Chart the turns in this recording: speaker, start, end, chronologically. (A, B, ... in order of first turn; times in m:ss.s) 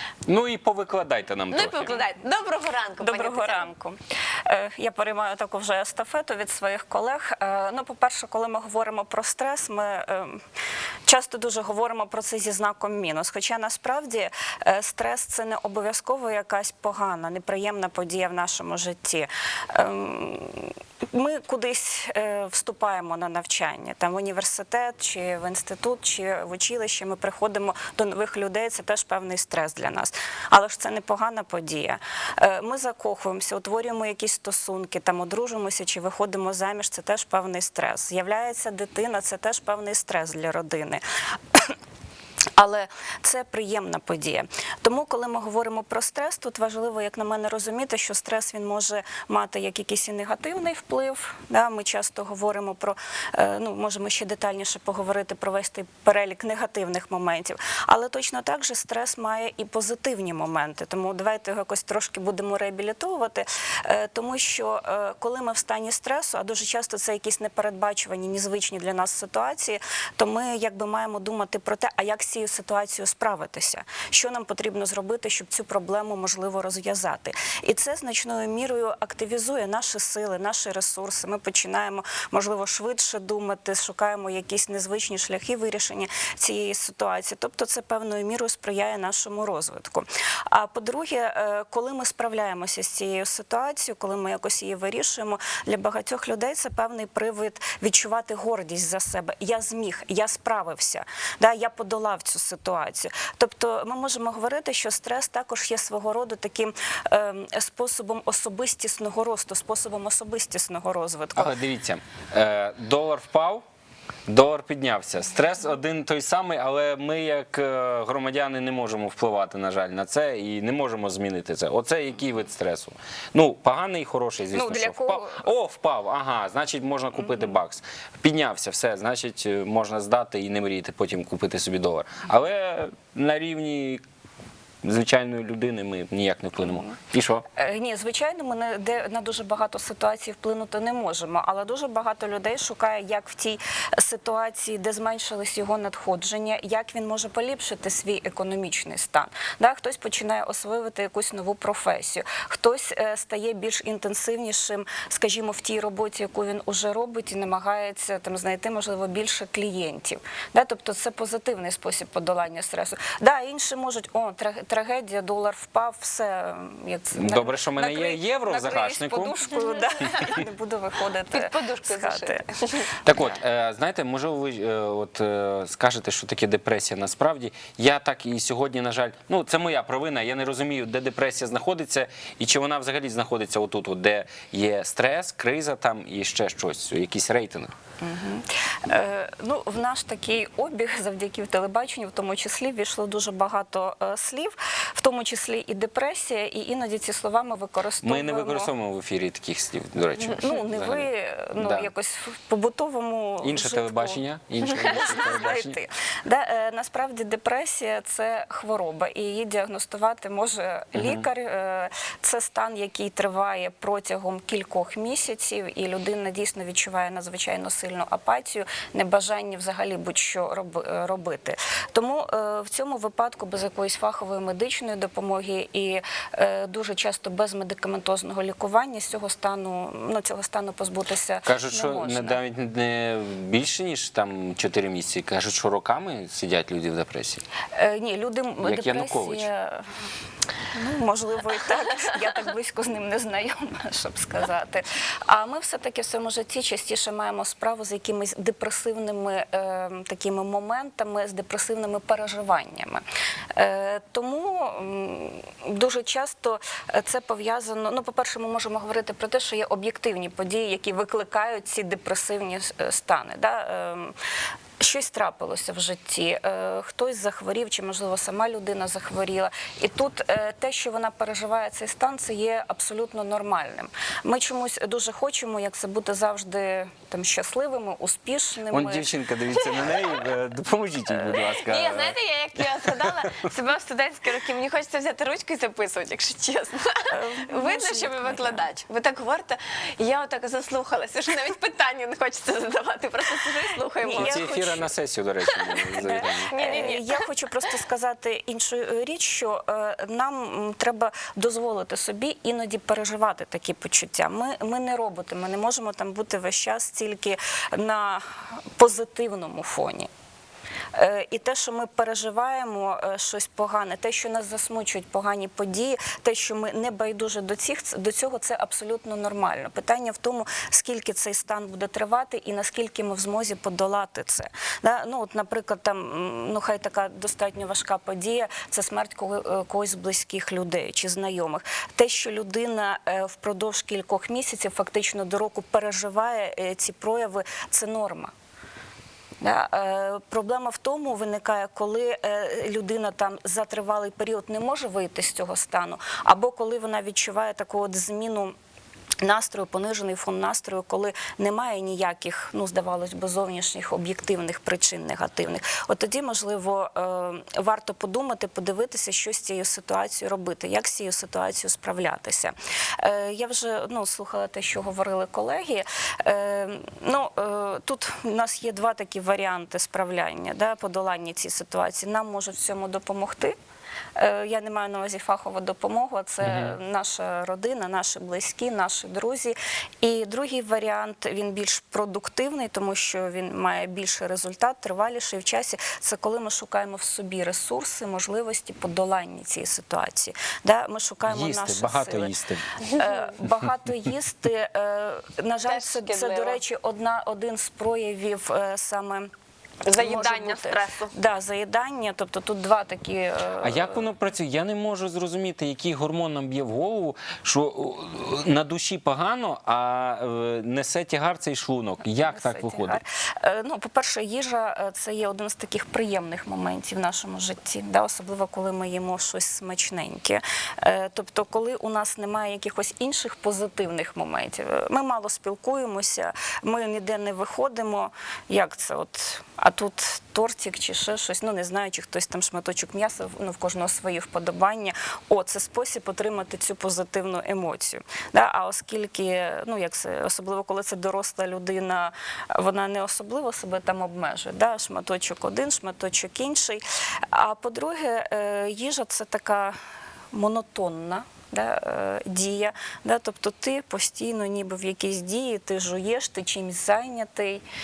0:00.3-0:02.0 A
0:01.5-0:03.7 B
0:03.0-0:10.4 C
0:11.1-0:41.0 C
0:42.6-1:51.6 C
1:51.4-1:53.6 A
1:54.3-2:14.0 A
2:04.5-2:05.5 C
2:07.3-2:07.5 C
2:14.8-2:17.4 A
2:17.6-2:52.4 C
2:47.1-2:49.5 A
2:51.3-2:52.9 B
2:53.0-3:07.7 A
3:08.0-3:18.7 C
3:18.0-3:21.9 A
3:20.4-3:52.4 C
3:23.4-3:25.8 A
3:31.0-3:31.2 A
3:51.5-3:57.4 A
3:57.7-3:59.9 C
3:58.6-3:59.5 A
4:00.7-4:13.0 C
4:13.6-4:24.2 C
4:24.8-4:39.1 C
4:38.7-4:43.4 A
4:39.6-4:39.9 B
4:41.2-4:54.6 B
4:47.1-4:48.6 C
4:54.0-4:54.9 C
4:54.2-4:56.5 A
4:55.5-4:57.2 B
4:55.9-5:08.2 C
5:08.8-5:10.1 C
5:11.0-5:38.3 C
5:39.4-5:48.6 C
5:49.2-6:13.6 C
6:14.2-6:32.3 C
6:16.4-6:16.8 A
6:31.3-6:32.6 A
6:32.9-6:39.3 C
6:35.7-6:36.6 B
6:39.8-6:41.1 B
6:39.9-6:44.1 C
6:43.6-6:53.0 A
6:52.2-7:29.8 C
7:30.3-7:37.6 C